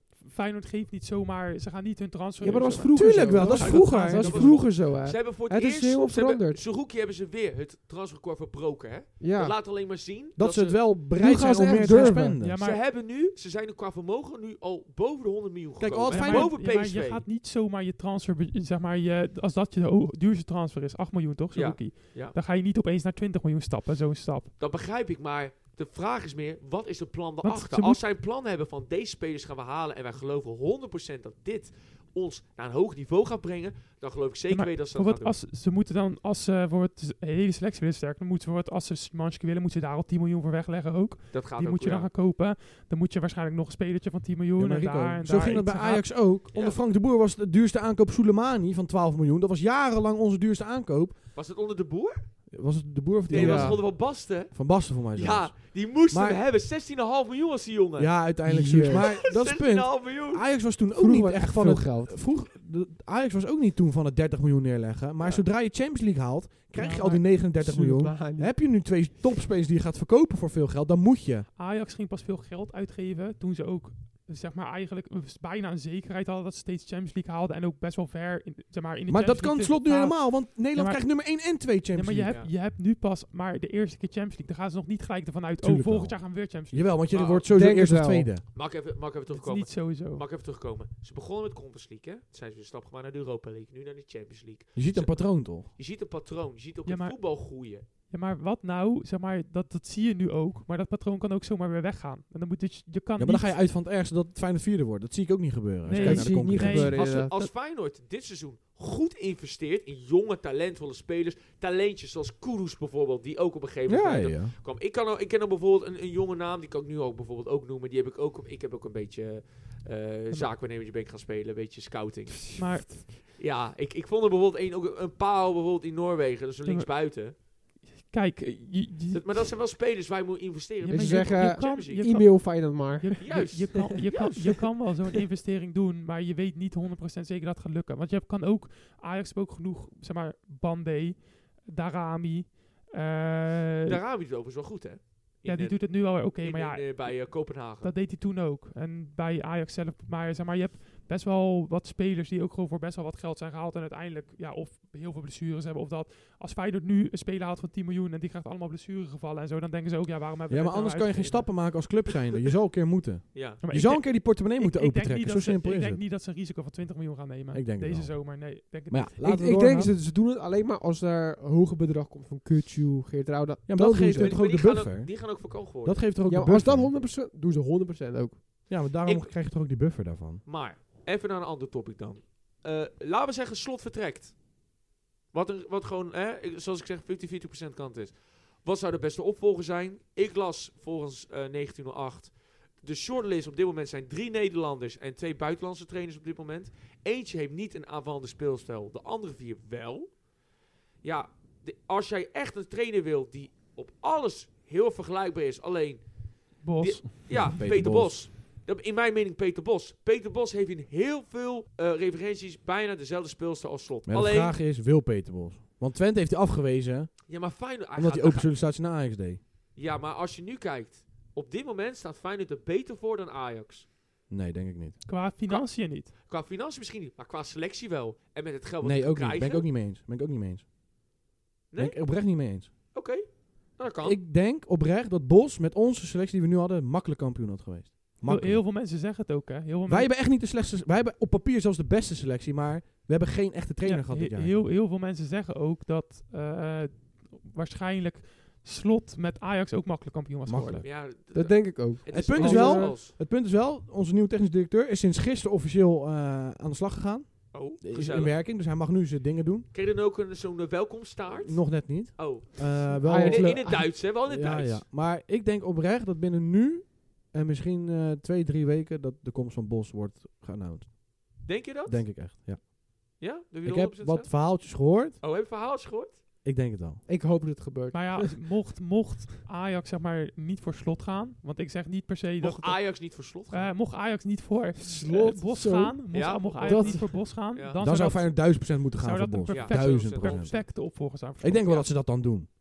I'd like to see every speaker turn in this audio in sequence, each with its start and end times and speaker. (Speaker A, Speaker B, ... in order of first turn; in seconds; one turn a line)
Speaker A: 0.2-4.5
Speaker B: 2.4-6.6
Speaker C: 3.0-4.6
Speaker D: 3.6-10.9
Speaker B: 9.2-9.6
Speaker C: 10.4-12.6
Speaker B: 11.1-12.4
Speaker A: 12.4-12.8
Speaker D: 12.4-17.2
Speaker C: 15.8-16.5
Speaker A: 16.1-24.5
Speaker D: 21.5-22.4
Speaker D: 24.6-35.4
Speaker A: 27.4-28.0
Speaker A: 34.5-46.1
Speaker D: 41.3-42.1
Speaker C: 44.6-51.2
Speaker D: 46.5-46.8
Speaker D: 51.4-52.3
Speaker C: 52.5-56.4
Speaker D: 53.3-58.3
Speaker B: 53.3-53.8
Speaker C: 58.0-71.5
Speaker B: 58.5-59.1
Speaker D: 58.9-60.5
Speaker B: 61.0-62.2
Speaker D: 65.2-65.5
Speaker A: 66.8-67.2
Speaker B: 67.4-68.6
Speaker A: 71.6-87.0
Speaker C: 79.1-82.4
Speaker C: 85.6-88.5
Speaker D: 87.1-87.5
Speaker B: 87.5-88.3
Speaker D: 88.5-97.9
Speaker A: 89.3-90.2
Speaker C: 94.8-95.7
Speaker A: 96.9-97.4
Speaker A: 98.1-103.6
Speaker C: 103.2-106.9
Speaker A: 105.9-107.5
Speaker B: 106.0-107.3
Speaker D: 106.8-127.4
Speaker C: 113.9-114.6
Speaker B: 122.5-123.0
Speaker A: 122.6-123.0
Speaker A: 126.7-129.5
Speaker D: 129.1-132.1
Speaker A: 130.8-144.0
Speaker B: 130.9-133.9
Speaker D: 133.2-134.8
Speaker D: 143.9-147.9
Speaker A: 145.4-161.9
Speaker C: 160.5-166.0
Speaker D: 163.3-163.6
Speaker A: 163.6-169.1
Speaker C: 167.5-169.9
Speaker B: 169.2-174.4
Speaker C: 173.7-176.9
Speaker D: 174.2-176.0
Speaker B: 176.2-178.5
Speaker C: 178.7-180.4
Speaker D: 179.0-179.3
Speaker D: 180.5-184.4
Speaker D: 185.3-200.2
Speaker D: 201.0-214.6
Speaker A: 206.6-207.5
Speaker C: 207.3-208.2
Speaker C: 214.1-219.4
Speaker D: 217.3-218.5
Speaker D: 219.8-223.9
Speaker C: 224.3-225.1
Speaker A: 225.1-226.1
Speaker D: 225.5-229.7
Speaker C: 228.8-230.7
Speaker D: 231.7-232.2
Speaker C: 231.8-232.7
Speaker D: 232.9-234.2
Speaker C: 234.0-238.6
Speaker A: 238.2-240.1
Speaker C: 239.9-244.6
Speaker A: 243.8-250.9
Speaker C: 250.5-250.9
Speaker D: 250.8-253.1
Speaker B: 251.3-253.0
Speaker C: 252.1-259.7
Speaker D: 257.5-258.4
Speaker D: 259.7-264.9
Speaker C: 261.4-272.7
Speaker B: 263.0-263.9
Speaker D: 271.4-272.1
Speaker D: 273.2-274.5
Speaker C: 273.6-275.2
Speaker D: 275.2-276.3
Speaker C: 276.4-277.0
Speaker B: 277.1-278.3
Speaker A: 277.9-291.9
Speaker D: 282.4-283.8
Speaker B: 284.8-287.1
Speaker D: 286.1-287.8
Speaker C: 287.8-292.5
Speaker D: 289.5-290.6